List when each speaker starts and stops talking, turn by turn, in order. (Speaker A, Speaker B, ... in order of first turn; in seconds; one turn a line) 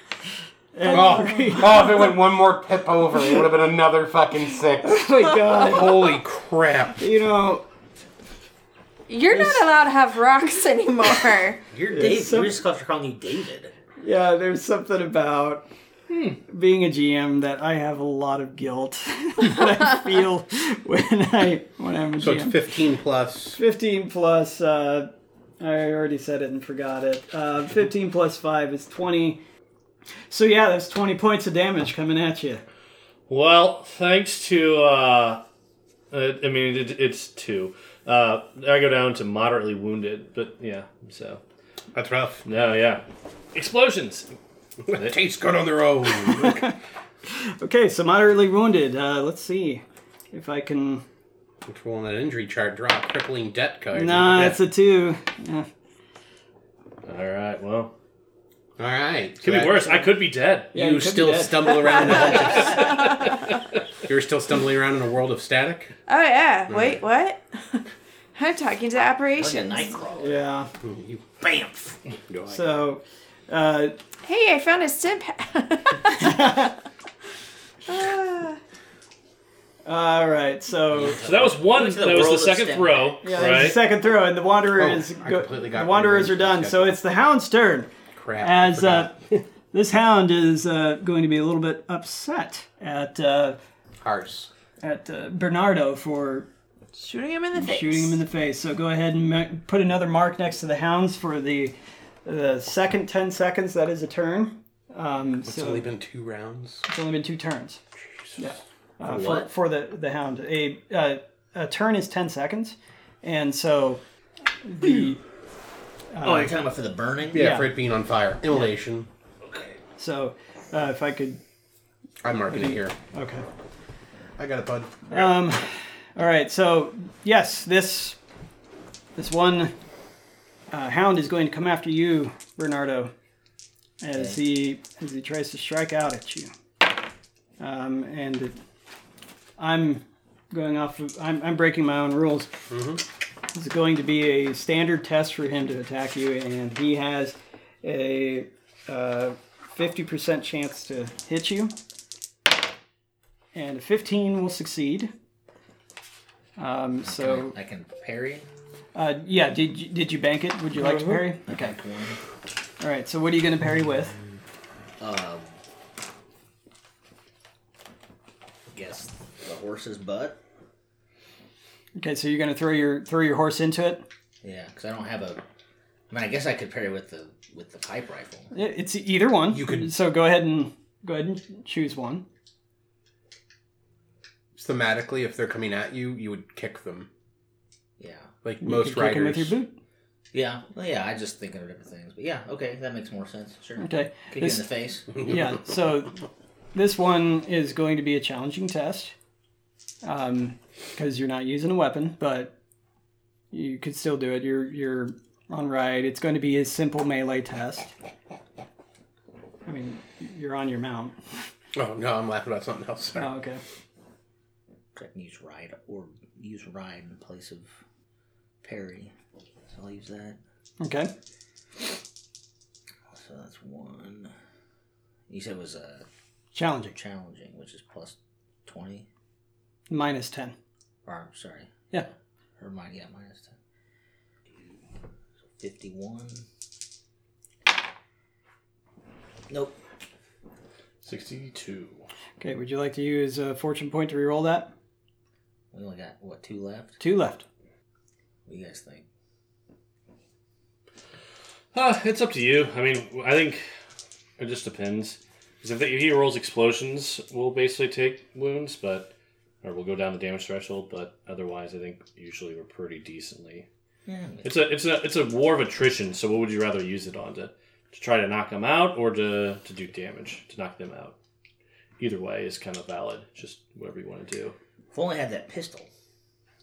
Speaker A: 0.7-1.8
Speaker B: 0.9-7.0
Speaker A: 4.8-6.2
Speaker A: 7.0-7.7
Speaker C: 9.1-11.6
Speaker A: 9.3-9.6
Speaker D: 11.7-13.7
Speaker A: 11.9-12.6
Speaker A: 14.0-15.7
Speaker E: 16.1-16.4
Speaker A: 16.4-22.6
Speaker B: 22.2-23.6
Speaker A: 23.6-29.4
Speaker A: 30.3-32.6
Speaker E: 33.3-35.4
Speaker E: 36.1-41.4
Speaker B: 41.9-42.4
Speaker E: 42.5-44.3
Speaker B: 44.9-46.7
Speaker A: 46.2-46.7
Speaker A: 47.2-51.0
Speaker B: 51.6-54.5
Speaker A: 53.9-55.7
Speaker E: 57.0-57.9
Speaker B: 58.8-60.0
Speaker E: 59.4-60.7
Speaker A: 60.7-62.6
Speaker B: 60.7-63.2
Speaker D: 62.4-62.7
Speaker E: 62.6-63.4
Speaker B: 64.0-65.9
Speaker C: 66.1-69.9
Speaker B: 66.7-67.0
Speaker D: 69.3-70.4
Speaker A: 70.1-70.7
Speaker B: 70.8-71.3
Speaker D: 71.4-72.0
Speaker B: 72.3-72.8
Speaker A: 72.5-74.0
Speaker C: 74.2-76.5
Speaker A: 76.2-76.7
Speaker C: 77.9-78.6
Speaker A: 79.8-81.2
Speaker D: 80.9-83.2
Speaker E: 81.1-83.8
Speaker A: 83.2-87.9
Speaker B: 84.8-87.0
Speaker B: 88.1-89.1
Speaker A: 88.4-89.2
Speaker A: 89.7-93.6
Speaker B: 94.0-94.5
Speaker A: 94.8-96.5
Speaker C: 96.9-98.2
Speaker A: 97.5-105.9
Speaker B: 105.4-106.8
Speaker A: 106.9-107.8
Speaker B: 108.2-108.5
Speaker A: 108.4-114.0
Speaker D: 109.0-109.5
Speaker A: 114.6-115.2
Speaker A: 116.1-116.5
Speaker D: 116.2-117.5
Speaker B: 117.3-119.1
Speaker A: 117.3-117.7
Speaker D: 119.4-119.7
Speaker A: 120.0-121.4
Speaker B: 122.2-123.0
Speaker A: 122.5-123.4
Speaker B: 124.4-125.3
Speaker A: 125.1-128.2
Speaker A: 129.2-129.7
Speaker A: 130.7-133.1
Speaker A: 134.0-136.5
Speaker A: 137.6-138.6
Speaker A: 139.6-142.5
Speaker B: 142.7-143.0
Speaker A: 143.5-151.7
Speaker A: 153.5-155.1
Speaker A: 156.6-157.5
Speaker D: 157.0-158.5
Speaker A: 158.9-161.7
Speaker D: 161.4-162.2
Speaker A: 162.8-164.2
Speaker D: 165.0-165.6
Speaker D: 168.7-170.4
Speaker A: 171.9-174.0
Speaker D: 174.4-175.4
Speaker D: 176.1-178.5
Speaker A: 178.5-182.2
Speaker B: 179.5-179.9
Speaker B: 184.6-187.1
Speaker D: 188.0-188.3
Speaker B: 188.4-189.6
Speaker A: 188.6-189.8
Speaker D: 190.3-195.1
Speaker A: 193.8-196.2
Speaker A: 196.7-199.1
Speaker A: 200.0-202.5
Speaker A: 203.5-207.9
Speaker A: 209.7-211.2
Speaker B: 211.7-213.3
Speaker A: 213.2-213.6
Speaker D: 214.9-217.7
Speaker D: 218.6-219.1
Speaker D: 219.7-220.4
Speaker A: 220.8-221.1
Speaker D: 223.1-224.3
Speaker D: 225.3-226.1
Speaker A: 226.5-226.9
Speaker D: 226.9-229.1
Speaker A: 229.9-230.6
Speaker D: 231.0-231.7
Speaker D: 232.6-233.6
Speaker D: 235.6-236.4
Speaker D: 239.5-239.8
Speaker E: 241.0-242.0
Speaker A: 242.4-244.7
Speaker D: 245.7-247.0
Speaker A: 247.0-247.4
Speaker D: 248.4-249.1
Speaker E: 251.7-253.6
Speaker E: 254.4-259.1
Speaker E: 259.6-263.6
Speaker D: 264.1-264.5
Speaker E: 264.4-271.1
Speaker E: 272.0-274.6
Speaker D: 274.9-275.9